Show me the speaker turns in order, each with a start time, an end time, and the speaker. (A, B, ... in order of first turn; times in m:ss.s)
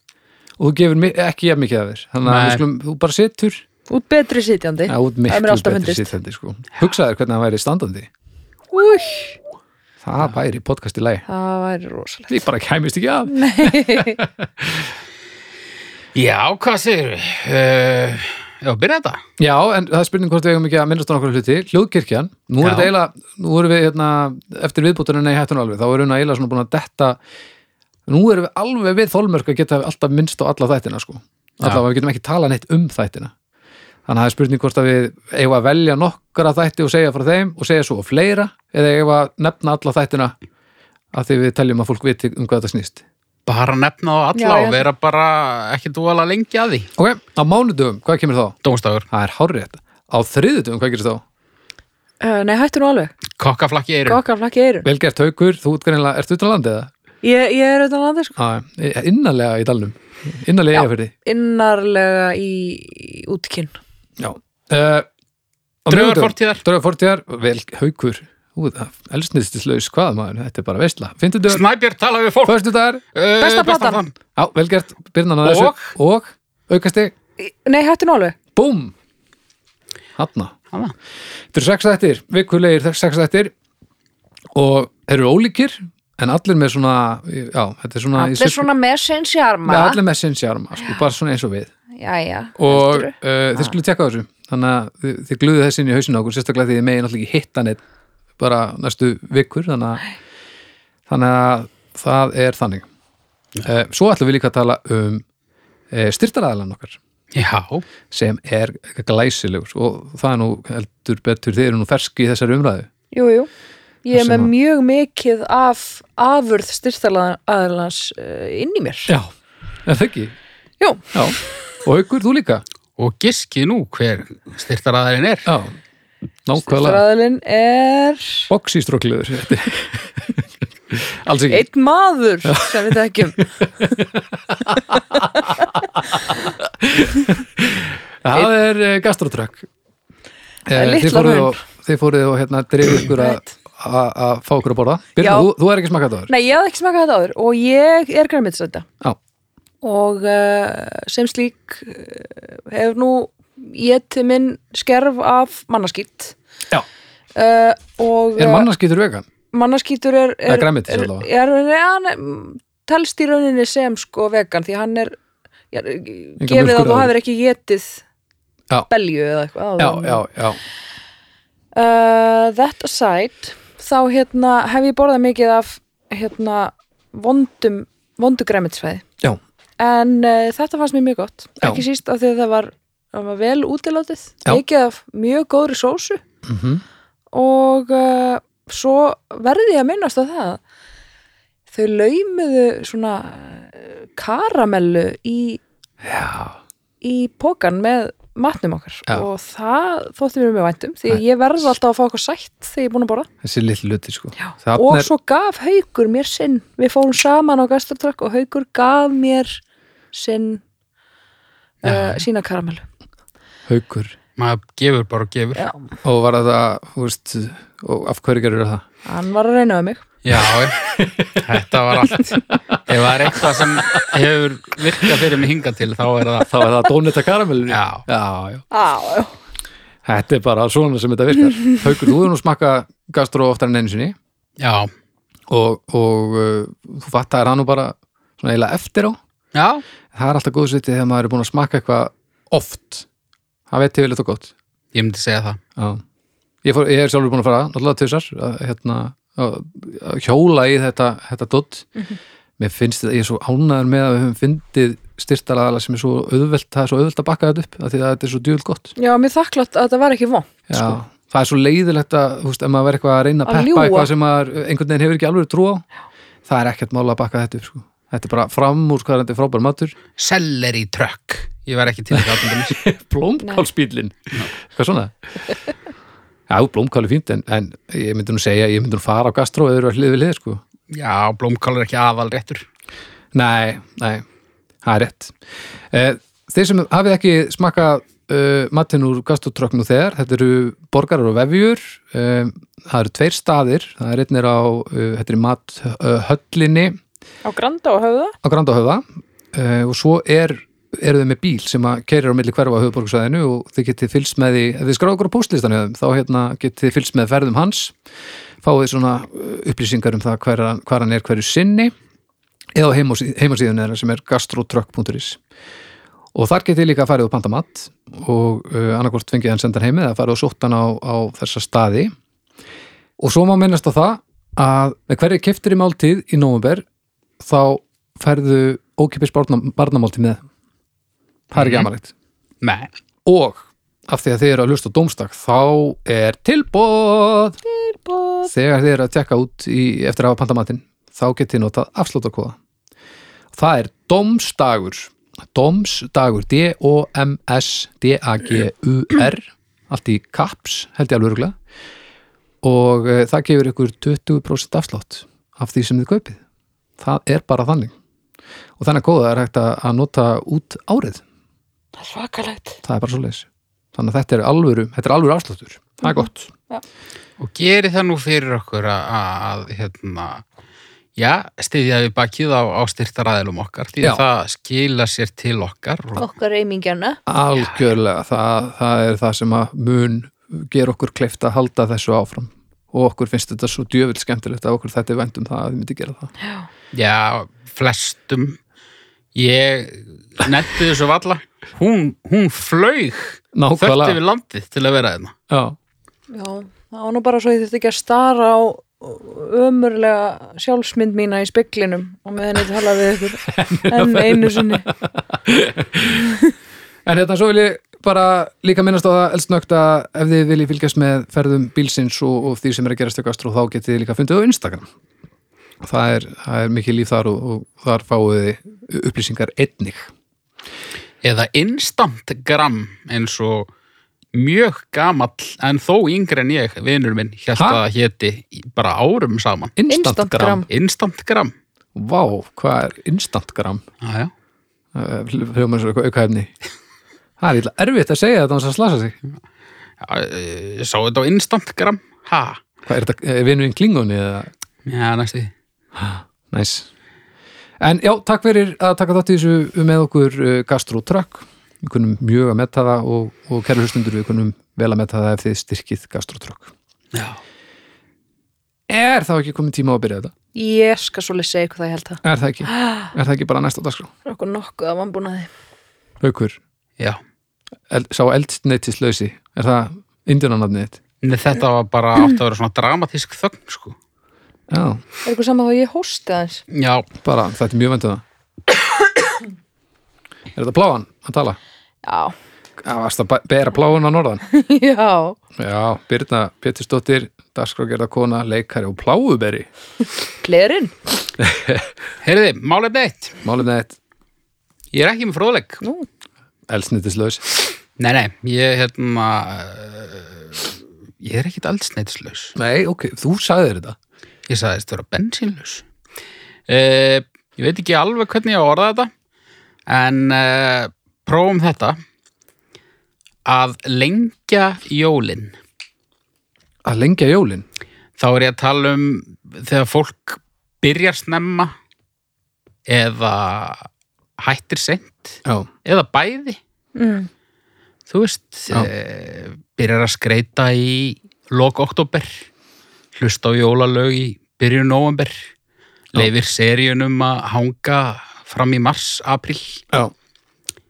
0:00.6-0:03.6 A
0:02.2-0:02.6 B
0:03.9-0:06.1 C
0:04.9-0:08.1 A
0:08.7-0:09.4 C
0:10.0-0:11.2 A
0:11.3-0:12.4 C
0:12.3-0:14.9 A
0:13.3-0:14.2 C
0:16.1-0:19.2 B
0:19.4-0:27.2 A
0:22.6-0:22.9 B
0:28.1-0:33.3 A
0:34.0-0:40.3 A
0:41.1-0:43.0 A
0:43.4-0:46.9 B
0:44.3-0:44.8 C
0:47.0-0:48.6 A
0:48.6-0:49.0 B
0:49.1-0:51.2 A
0:52.2-0:53.1 C
0:53.4-0:54.2 B
0:54.1-0:54.9 C
0:54.8-0:56.9 A
0:57.2-0:58.4 C
0:58.4-1:01.1 A
1:00.7-1:03.8 C
1:04.2-1:05.1 A
1:05.8-1:11.6 A
1:05.9-1:06.6 B
1:11.5-1:12.6 B
1:12.4-1:13.0 A
1:13.1-1:14.1 B
1:13.4-1:14.0 C
1:14.4-1:17.1 A
1:15.4-1:15.9 B
1:17.4-1:18.4 C
1:18.6-1:18.9 A
1:20.2-1:20.5 A
1:21.5-1:23.5 A
1:24.5-1:28.7 A
1:28.1-1:30.0 C
1:29.7-1:31.7 A
1:32.0-1:33.7 C
1:32.6-1:37.8 A
1:38.4-1:40.0 A
1:41.1-1:42.8 A
1:43.6-1:45.2 A
1:45.9-1:47.0 A
1:47.3-1:47.8 B
1:48.1-1:52.9 A
1:53.1-1:53.5 C
1:54.0-1:59.1 C
1:54.1-1:54.5 A
1:59.8-2:00.3 A
2:00.8-2:01.2 C
2:01.1-2:02.6 A
2:03.0-2:05.5 B
2:05.4-2:05.8 A
2:06.4-2:07.0 A
2:06.6-2:08.5 C
2:08.5-2:11.6 A
2:11.5-2:13.4 C
2:12.4-2:19.7 A
2:20.7-2:26.3 A
2:20.7-2:21.6 C
2:23.1-2:23.4 C
2:25.2-2:25.5 C
2:26.3-2:28.9 C
2:29.8-2:36.3 C
2:37.3-2:38.7 C
2:38.4-2:39.2 A
2:39.5-2:45.2 C
2:40.5-2:41.2 A
2:45.7-2:48.0 C
2:46.4-2:47.1 A
2:48.9-2:50.2 C
2:49.8-2:50.6 A
2:51.7-2:59.0 C
2:59.8-3:06.2 C
3:06.4-3:06.8 A
3:07.3-3:10.6 C
3:11.7-3:15.6 C
3:16.0-3:16.6 A
3:17.0-3:23.3 C
3:23.4-3:25.1 A
3:24.4-3:29.6 C
3:30.1-3:30.6 C
3:31.8-3:32.8 C
3:31.8-3:32.2 B
3:33.7-3:34.2 A
3:34.4-3:35.6 B
3:35.6-3:35.8 C
3:36.0-3:38.8 A
3:39.0-3:40.0 C
3:40.2-3:40.8 B
3:40.3-3:44.2 A
3:41.3-3:46.6 B
3:45.0-3:45.3 A
3:46.4-3:48.6 A
3:47.7-3:48.0 B
3:48.7-3:49.3 C
3:50.0-3:54.2 A
3:54.6-3:54.9 B
3:55.5-3:59.2 A
3:59.5-3:59.8 B
4:00.1-4:03.0 A
4:03.7-4:04.5 A
4:04.9-4:05.6 B
4:05.8-4:06.0 A
4:06.6-4:11.9 A
4:12.6-4:18.9 A
4:19.0-4:20.5 C
4:20.7-4:25.8 A
4:23.4-4:24.1 C
4:26.4-4:29.9 A
4:30.2-4:32.8 B
4:32.1-4:35.1 A
4:36.5-4:40.6 A
4:40.9-4:42.6 B
4:43.3-4:44.2 A
4:44.8-4:45.4 A
4:45.9-4:57.0 A
4:57.4-4:58.3 C
4:58.4-5:07.9 A
5:08.6-5:11.9 A
5:12.7-5:15.4 A
5:16.3-5:22.1 A
5:23.2-5:26.8 A
5:27.4-5:30.4 A
5:31.5-5:32.1 A
5:31.5-5:31.9 B
5:32.6-5:32.9 B
5:33.2-5:37.6 A
5:37.7-5:38.5 C
5:38.5-5:42.6 A
5:43.5-5:51.5 A
5:52.6-5:56.4 A
5:57.0-5:57.9 A
5:58.8-6:01.2 A
6:02.0-6:02.8 C
6:02.8-6:06.5 A
6:06.0-6:06.8 C
6:07.4-6:10.4 B
6:11.2-6:16.2 B
6:16.2-6:17.2 C
6:17.3-6:26.3 A
6:26.4-6:26.7 C
6:26.9-6:28.6 B
6:29.3-6:35.3 B
6:33.5-6:34.2 A
6:35.5-6:35.8 A
6:36.3-6:44.8 C
6:43.4-6:46.3 A
6:46.2-6:46.5 C
6:47.0-6:54.9 A
6:55.8-7:00.1 A
7:01.2-7:03.7 B
7:04.3-7:09.7 B
7:07.6-7:07.8 A
7:09.8-7:10.6 A
7:09.9-7:10.7 C
7:10.7-7:11.5 B
7:11.9-7:13.8 A
7:14.0-7:14.3 B
7:14.9-7:16.5 A
7:17.4-7:19.2 A
7:20.0-7:22.6 B
7:22.8-7:24.5 A
7:24.8-7:25.5 B
7:26.0-7:26.9 A
7:27.8-7:36.7 A
7:37.1-7:37.4 B
7:38.9-7:40.3 A
7:40.5-7:43.1 C
7:42.2-7:44.1 A
7:44.2-7:45.5 C
7:46.2-7:46.6 A
7:47.9-7:51.0 A
7:51.2-7:54.0 B
7:54.7-7:55.0 A
7:55.2-7:56.6 C
7:56.7-7:57.1 B
7:57.2-7:58.2 A
8:00.5-8:01.6 A
8:02.0-8:02.3 C
8:02.8-8:04.4 A
8:04.5-8:05.4 C
8:05.6-8:09.7 A
8:10.4-8:10.9 C
8:11.4-8:11.9 A
8:12.2-8:13.4 B
8:13.4-8:14.0 A
8:14.9-8:15.8 B
8:16.7-8:17.4 A
8:18.0-8:22.5 B
8:22.6-8:24.0 A
8:24.5-8:25.8 B
8:26.7-8:29.1 B
8:29.9-8:32.0 B
8:33.4-8:35.6 B
8:36.8-8:37.6 A
8:38.2-8:41.7 B
8:42.9-8:43.9 B
8:44.4-8:46.6 B
8:47.0-8:47.3 C
8:48.1-8:52.4 B
8:53.1-8:55.4 B
8:56.1-8:59.8 B